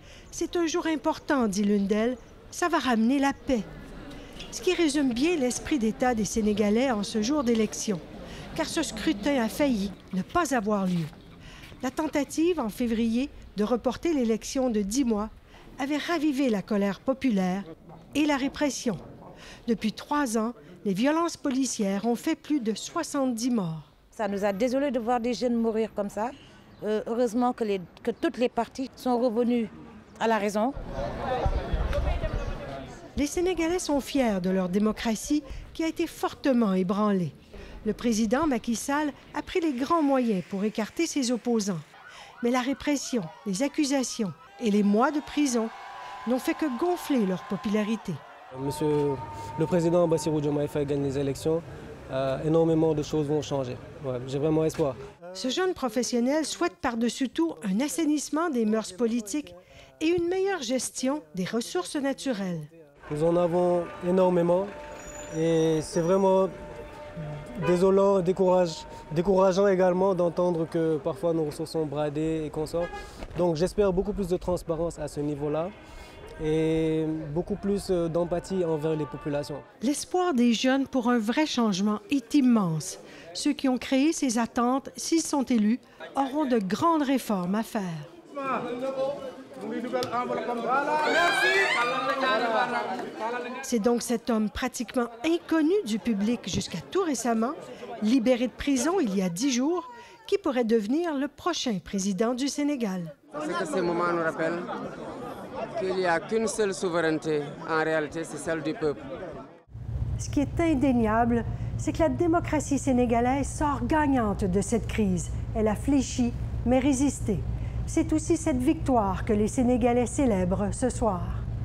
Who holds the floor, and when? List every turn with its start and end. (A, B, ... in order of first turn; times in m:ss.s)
0:00.3-0:03.7 A
0:04.5-0:08.0 A
0:08.5-0:11.1 A
0:11.8-0:19.0 A
0:19.6-0:23.9 A
0:24.1-0:30.8 B
0:33.2-0:41.8 A
0:42.4-0:45.7 A
0:46.2-0:48.2 A
0:48.6-0:55.0 C
0:55.3-1:02.7 A
1:03.1-1:04.7 C
1:05.3-1:06.5 C
1:07.2-1:15.7 C
1:16.4-1:19.6 C
1:19.8-1:28.1 A
1:33.6-1:43.1 A
1:43.4-1:44.7 D
1:45.7-1:49.1 D
1:50.2-2:01.4 A